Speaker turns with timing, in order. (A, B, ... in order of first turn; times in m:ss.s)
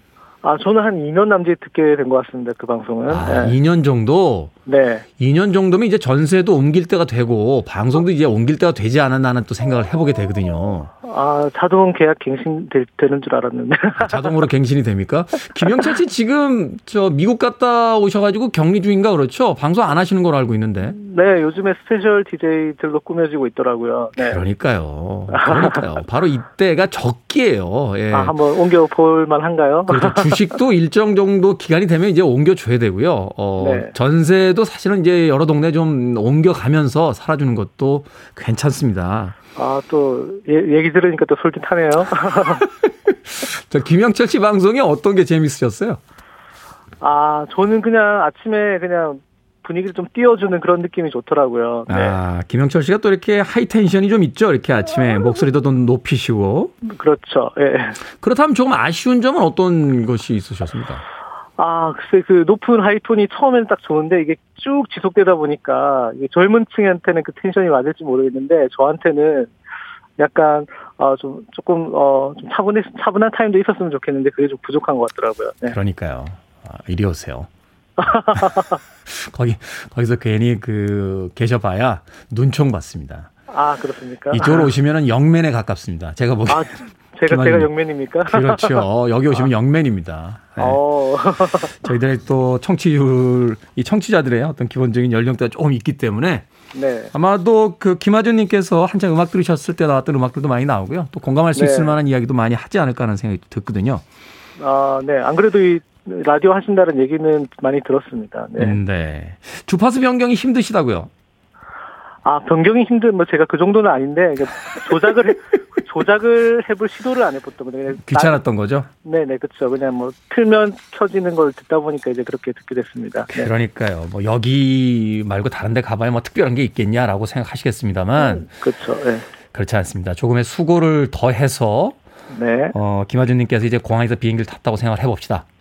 0:00.4-0:03.6 A
0:03.1-0:04.5 B
0:04.7-0:05.0 A
0:05.2-0:10.9 B
0:11.0-0:14.3 A
0:14.0-0:21.0 B
0:20.9-0:24.4 A
0:24.2-0:28.4 B
0:25.3-0:25.8 A
0:28.1-0:30.5 A
0:29.9-0:39.4 B
0:33.6-0:33.9 A
0:39.6-0:42.6 A
0:42.5-0:46.0 B
0:47.0-0:52.2 A
0:51.9-0:56.7 B
0:56.8-0:58.0 A
0:58.2-1:01.0 B
1:01.6-1:09.5 A
1:10.2-1:15.8 A
1:15.7-1:17.5 B
1:18.0-1:18.8 A
1:19.1-1:23.3 B
1:23.5-1:24.7 A
1:24.3-1:27.7 B
1:26.5-1:28.8 A
1:28.3-1:30.8 B
1:30.6-1:31.8 A
1:31.8-1:36.5 B
1:36.7-1:37.1 A
1:37.1-1:44.0 B
1:41.6-1:41.9 A
1:44.6-1:48.8 A
1:48.6-1:51.1 B
1:52.2-1:58.4 A
1:58.0-1:58.9 B
1:59.0-2:03.5 A
2:03.3-2:08.5 B
2:08.2-2:09.3 A
2:09.5-2:12.0 B
2:12.3-2:12.8 A
2:12.7-2:15.4 B